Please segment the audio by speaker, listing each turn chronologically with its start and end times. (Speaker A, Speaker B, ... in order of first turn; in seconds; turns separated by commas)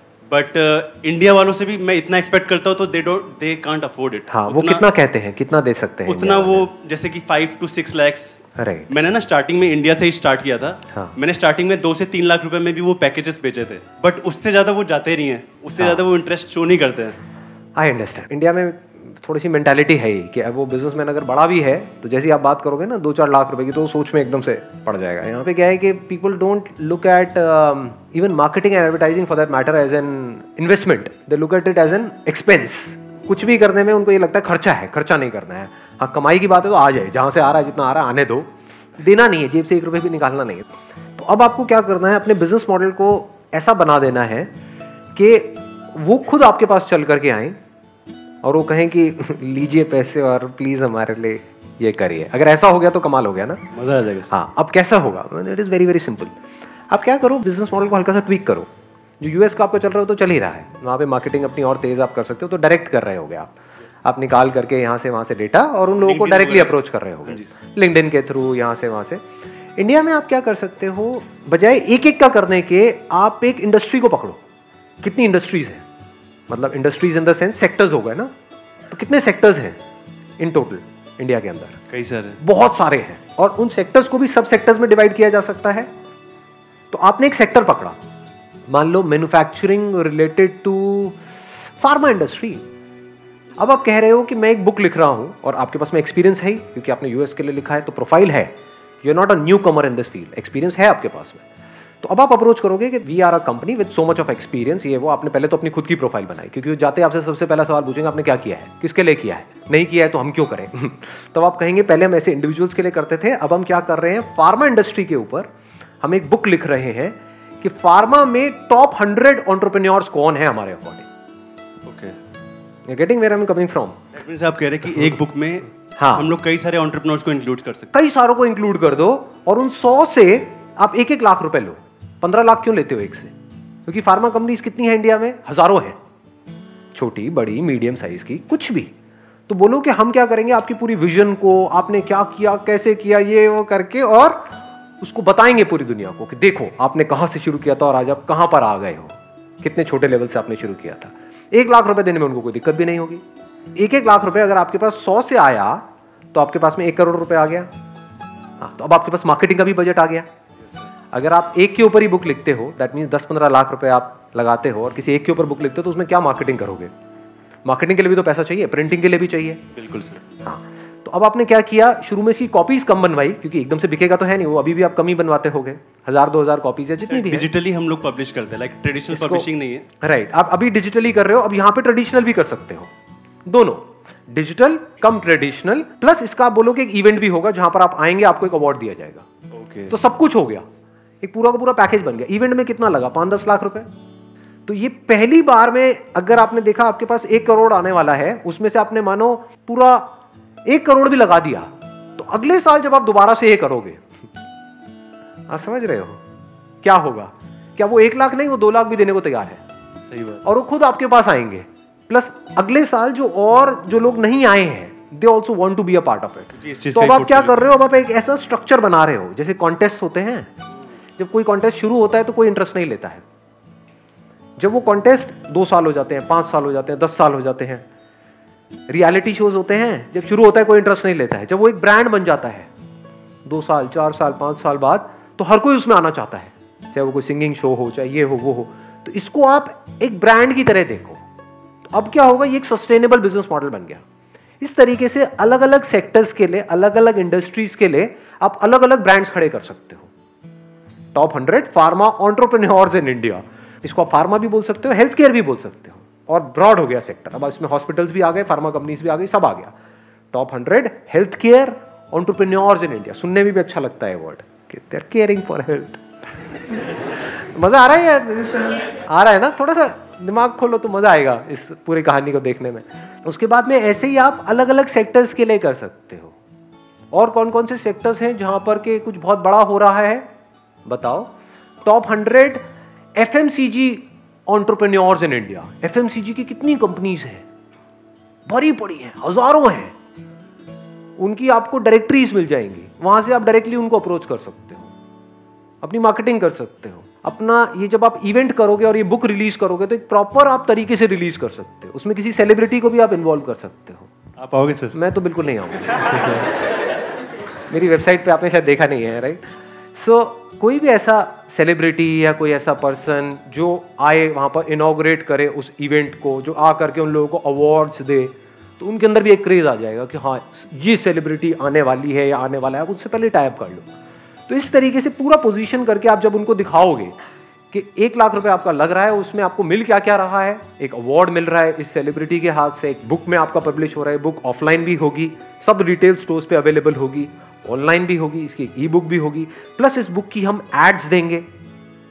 Speaker A: 0.3-4.9, Speaker B: 4.3-6.7, Speaker A: 6.1-8.4, Speaker B: 8.6-8.9, Speaker A: 8.9-17.2, Speaker B: 15.8-16.1, Speaker B: 17.8-40.6, Speaker B: 41.2-44.5, Speaker B: 45.1-47.6, Speaker B: 48.4-53.6, Speaker A: 53.7-54.3, Speaker B: 54.3-56.3, Speaker B: 56.9-58.7, Speaker B: 59.2-63.5, Speaker B: 64.0-69.2, Speaker A: 66.0-67.5, Speaker B: 69.8-74.4, Speaker B: 75.0-75.8, Speaker B: 76.5-78.3, Speaker B: 78.9-79.8, Speaker B: 80.4-81.8, Speaker A: 81.9-82.4, Speaker B: 82.4-85.9, Speaker B: 86.9-88.0, Speaker B: 88.7-91.2, Speaker B: 91.8-92.6, Speaker B: 93.6-101.4, Speaker B: 102.0-115.5, Speaker B: 116.0-121.1, Speaker A: 121.8-122.2, Speaker B: 122.9-124.0, Speaker A: 124.1-127.9, Speaker B: 126.0-126.3, Speaker B: 127.9-133.3, Speaker B: 133.9-136.0, Speaker B: 136.9-138.9, Speaker B: 139.5-153.2, Speaker B: 153.8-157.7, Speaker B: 158.6-160.3, Speaker B: 161.1-166.9, Speaker B: 167.7-169.7, Speaker A: 169.7-170.2, Speaker B: 170.4-177.5, Speaker A: 177.1-179.9, Speaker B: 179.1-179.5, Speaker B: 180.0-182.9, Speaker B: 183.5-189.3, Speaker A: 189.5-190.0, Speaker B: 189.9-190.7, Speaker B: 191.2-193.9, Speaker B: 194.7-200.1, Speaker B: 200.7-204.0, Speaker B: 205.5-206.2, Speaker B: 206.8-209.6, Speaker A: 210.0-210.4, Speaker B: 210.4-220.5, Speaker A: 216.5-217.6, Speaker B: 221.2-223.2, Speaker B: 224.6-227.8, Speaker B: 228.9-232.7, Speaker B: 233.5-241.2, Speaker B: 241.9-244.0, Speaker B: 244.6-250.1, Speaker B: 251.2-259.7, Speaker B: 260.3-266.1, Speaker B: 266.7-276.4, Speaker B: 277.1-280.3, Speaker B: 280.9-281.3, Speaker B: 281.9-282.6, Speaker B: 283.2-287.4, Speaker B: 288.5-289.9, Speaker B: 291.2-294.9, Speaker B: 295.8-304.1, Speaker A: 304.4-305.0, Speaker B: 304.9-306.5, Speaker B: 307.7-309.4, Speaker B: 310.0-323.9, Speaker B: 324.5-327.2, Speaker B: 327.7-341.4